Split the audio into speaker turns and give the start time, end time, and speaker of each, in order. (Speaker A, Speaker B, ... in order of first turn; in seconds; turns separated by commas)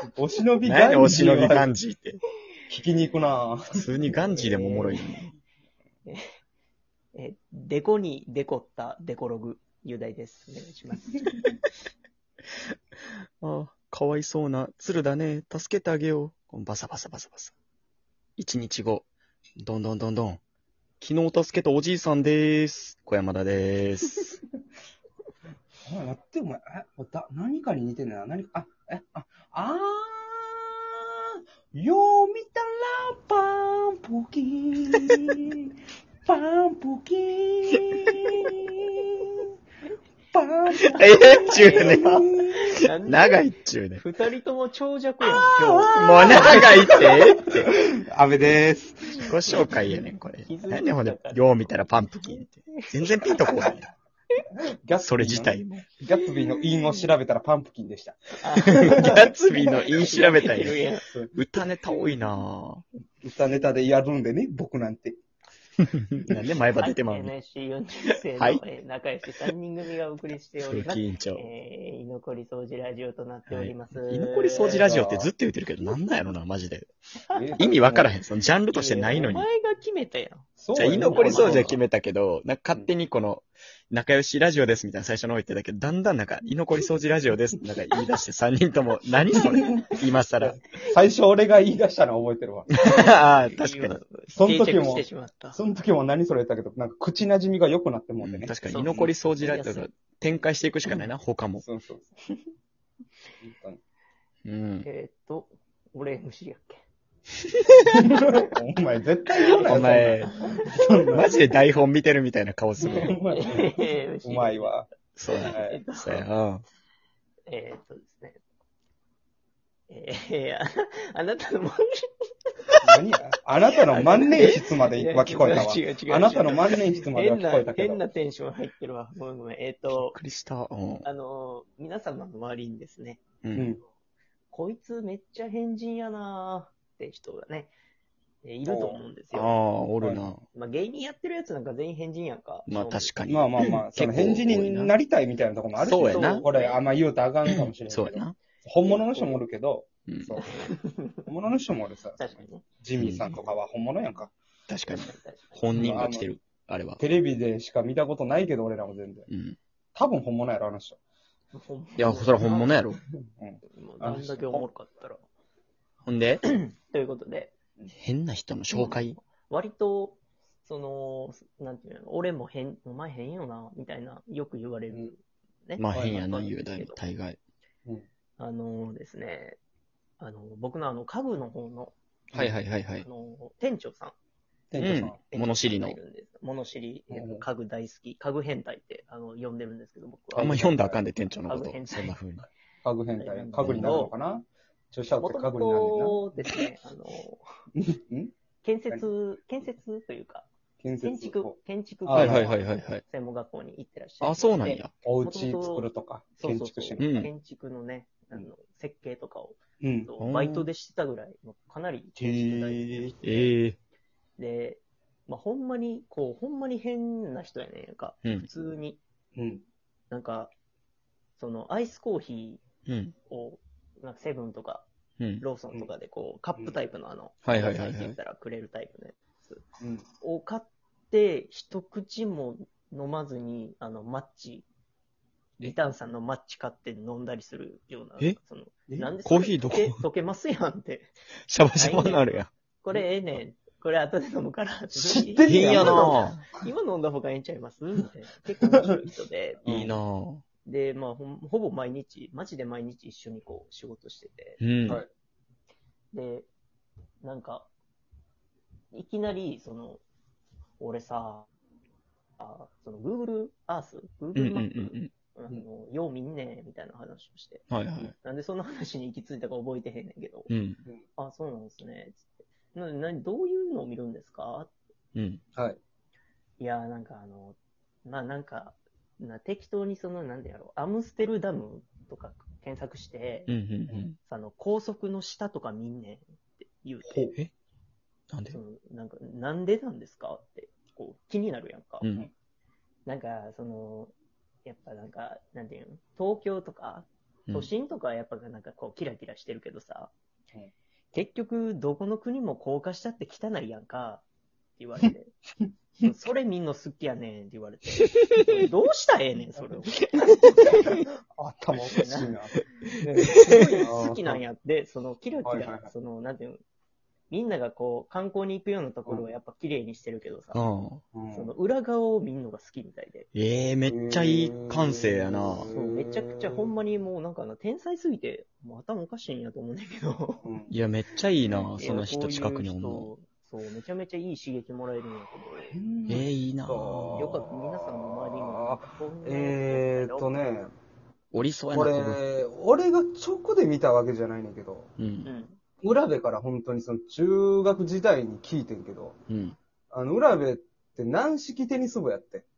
Speaker A: 0.1-1.7, Speaker B: 0.6-2.2, Speaker A: 2.7-3.8, Speaker B: 3.8-5.3, Speaker C: 4.1-5.2, Speaker C: 7.1-11.2, Speaker B: 13.4-17.5, Speaker B: 18.4-19.1, Speaker B: 19.6-20.4, Speaker B: 21.0-24.4, Speaker A: 25.9-35.7, Speaker A: 36.2-39.3, Speaker A: 40.3-42.6, Speaker B: 40.8-44.0, Speaker C: 40.9-43.5, Speaker C: 44.0-47.1, Speaker A: 45.5-47.3, Speaker B: 45.9-47.6, Speaker A: 48.1-49.2, Speaker C: 49.1-49.8, Speaker B: 49.2-53.9, Speaker C: 50.4-53.8, Speaker A: 54.8-59.1, Speaker B: 55.0-55.9, Speaker C: 56.2-57.1, Speaker C: 58.4-61.0, Speaker B: 58.6-60.8, Speaker A: 61.1-61.3, Speaker B: 61.3-62.8, Speaker A: 63.2-65.2, Speaker B: 65.8-67.3, Speaker C: 66.8-74.9, Speaker B: 68.4-68.6, Speaker B: 70.6-71.4, Speaker B: 73.5-76.9, Speaker A: 74.6-75.3, Speaker C: 77.3-77.6, Speaker A: 77.3-78.1, Speaker B: 77.6-79.5, Speaker C: 78.7-81.8, Speaker A: 80.6-81.8, Speaker B: 80.7-90.6, Speaker C: 89.3-89.8, Speaker A: 89.6-92.8, Speaker B: 92.8-94.0, Speaker C: 92.8-95.6, Speaker A: 94.3-99.1, Speaker B: 98.2-101.6, Speaker C: 98.7-99.9, Speaker A: 101.6-102.1, Speaker A: 103.4-103.8, Speaker B: 104.4-104.8, Speaker C: 104.8-106.8, Speaker A: 108.0-111.3, Speaker C: 109.5-111.3, Speaker B: 109.7-110.3, Speaker B: 111.1-113.1, Speaker A: 112.8-114.9, Speaker C: 112.8-114.7, Speaker B: 115.2-116.6, Speaker C: 115.4-116.2, Speaker A: 115.5-116.2, Speaker C: 117.5-118.4, Speaker C: 119.9-122.1, Speaker A: 122.8-128.0, Speaker C: 123.7-130.2, Speaker B: 129.9-131.1, Speaker C: 131.0-133.2, Speaker B: 133.4-133.7, Speaker A: 133.5-133.8, Speaker C: 134.5-137.7, Speaker C: 138.4-139.6, Speaker A: 138.7-139.0, Speaker B: 139.3-140.4, Speaker C: 140.5-143.1, Speaker B: 142.7-144.9, Speaker A: 143.3-150.7, Speaker B: 145.8-146.4, Speaker C: 146.0-146.9, Speaker B: 147.6-148.3, Speaker C: 148.8-149.4, Speaker B: 150.1-150.4, Speaker C: 150.4-151.3, Speaker A: 151.3-154.3, Speaker C: 152.2-152.6, Speaker B: 153.0-153.4, Speaker B: 154.7-157.0, Speaker C: 154.9-156.0, Speaker A: 155.7-156.3, Speaker A: 157.0-159.3, Speaker B: 159.3-159.6, Speaker A: 159.9-161.0, Speaker C: 161.5-162.8, Speaker B: 162.0-163.0, Speaker A: 163.4-164.7, Speaker C: 163.7-165.2, Speaker B: 166.1-166.4, Speaker C: 166.4-167.5, Speaker B: 167.9-169.2, Speaker C: 168.7-177.0, Speaker B: 175.8-177.4, Speaker A: 175.9-176.2, Speaker C: 178.4-179.6, Speaker C: 180.2-181.9, Speaker B: 182.3-183.1, Speaker C: 183.0-184.1, Speaker A: 184.7-185.2, Speaker B: 184.8-186.0, Speaker C: 185.3-192.2, Speaker A: 187.1-187.4, Speaker B: 190.3-192.5, Speaker A: 190.5-191.0, Speaker A: 192.8-196.2, Speaker C: 193.2-194.1, Speaker B: 193.6-194.1, Speaker C: 195.2-197.4, Speaker A: 197.8-198.3, Speaker C: 198.6-200.5, Speaker A: 200.8-202.5, Speaker C: 201.0-213.5, Speaker B: 202.1-203.0, Speaker B: 204.2-204.9, Speaker A: 205.0-207.0, Speaker B: 207.0-207.3, Speaker A: 209.8-210.1, Speaker B: 210.2-210.7, Speaker A: 212.2-213.1, Speaker B: 213.2-213.8, Speaker C: 214.4-219.0, Speaker A: 219.3-219.6, Speaker C: 220.1-220.5, Speaker C: 221.4-222.6, Speaker B: 222.9-223.1, Speaker C: 223.3-224.9, Speaker C: 225.4-229.6, Speaker B: 227.4-228.2, Speaker A: 229.8-230.0, Speaker C: 230.2-234.7, Speaker C: 235.6-241.1, Speaker A: 238.9-239.2, Speaker B: 239.2-240.0, Speaker B: 241.5-242.5, Speaker C: 241.8-249.6, Speaker A: 244.9-246.2, Speaker B: 245.4-246.4, Speaker A: 249.6-249.9, Speaker B: 249.6-250.4, Speaker C: 250.6-254.6, Speaker B: 254.6-255.0, Speaker C: 256.1-256.5, Speaker C: 257.2-257.7, Speaker C: 258.9-260.0, Speaker C: 260.8-261.5, Speaker C: 262.4-267.7, Speaker B: 264.3-265.1, Speaker B: 267.7-268.1, Speaker C: 268.2-270.5, Speaker B: 270.5-270.8, Speaker C: 271.2-274.7, Speaker B: 275.1-275.4, Speaker C: 276.6-283.5, Speaker B: 283.5-284.1, Speaker C: 284.2-287.4, Speaker A: 287.1-287.3, Speaker B: 288.3-288.6, Speaker C: 288.5-292.1, Speaker B: 292.0-292.3, Speaker C: 293.1-294.1, Speaker C: 294.6-300.1, Speaker C: 301.1-304.2, Speaker C: 304.8-305.3, Speaker C: 306.0-311.1, Speaker B: 308.1-308.6, Speaker B: 310.2-310.9, Speaker A: 311.4-312.6, Speaker C: 311.9-312.3, Speaker C: 313.0-316.6, Speaker B: 313.4-313.7, Speaker A: 313.8-314.4, Speaker A: 315.4-315.9, Speaker C: 317.3-320.6, Speaker B: 320.5-321.0, Speaker A: 321.1-321.5, Speaker C: 321.3-323.3, Speaker B: 323.3-325.7, Speaker A: 323.9-326.7, Speaker C: 325.6-330.5, Speaker A: 330.4-330.7, Speaker B: 330.7-333.1, Speaker C: 331.5-335.8, Speaker A: 335.7-340.7, Speaker B: 336.1-337.4, Speaker C: 337.1-340.3, Speaker B: 341.3-342.2, Speaker A: 341.7-344.9, Speaker B: 345.0-345.3, Speaker C: 345.2-345.6, Speaker A: 345.8-349.1, Speaker B: 349.3-349.6, Speaker A: 349.9-352.4